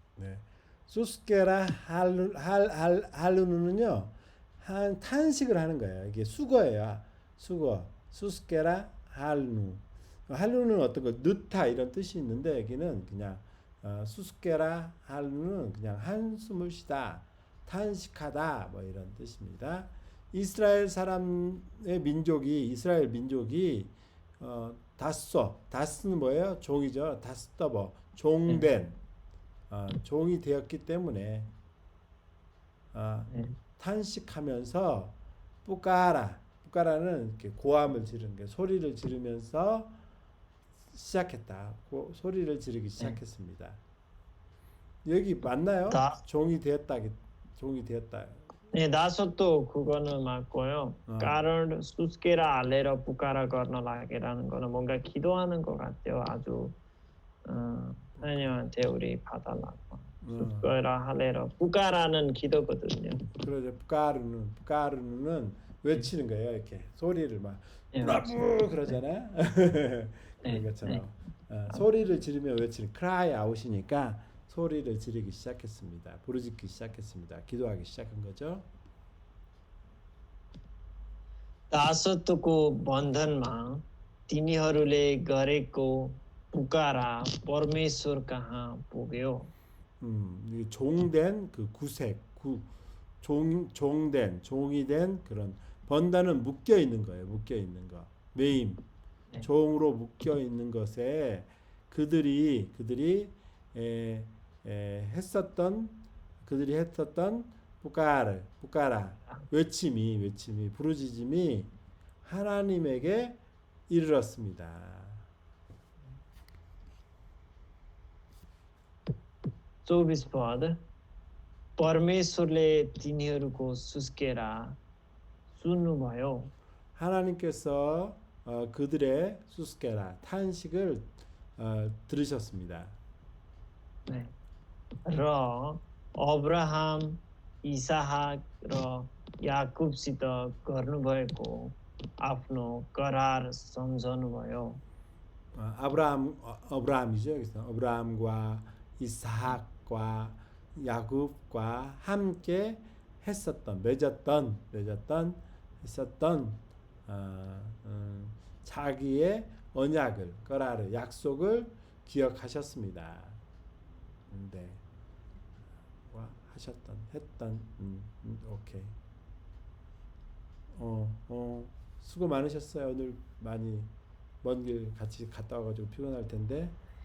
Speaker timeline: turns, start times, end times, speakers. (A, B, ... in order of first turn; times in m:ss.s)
0:00.2-0:29.0 A
0:29.7-0:31.5 A
0:32.9-0:40.0 A
0:33.3-0:33.6 B
0:40.9-0:43.8 A
0:45.0-0:48.5 A
0:45.9-0:46.2 B
0:48.7-0:56.8 B
0:51.1-0:51.4 A
0:57.4-1:03.3 B
0:58.2-0:58.5 A
1:00.2-1:00.7 A
1:03.3-1:18.7 A
1:07.9-1:08.4 B
1:10.4-1:11.0 B
1:21.7-1:29.5 B
1:30.0-1:32.7 A
1:33.2-1:38.8 A
1:39.4-1:55.3 A
1:59.8-2:00.8 B
2:01.8-2:04.8 B
2:05.5-2:06.5 B
2:07.0-2:13.0 A
2:14.0-2:14.3 B
2:15.0-2:24.8 B
2:25.5-2:43.4 A
2:44.3-2:44.8 A
2:46.1-2:49.0 A
2:50.7-2:56.8 A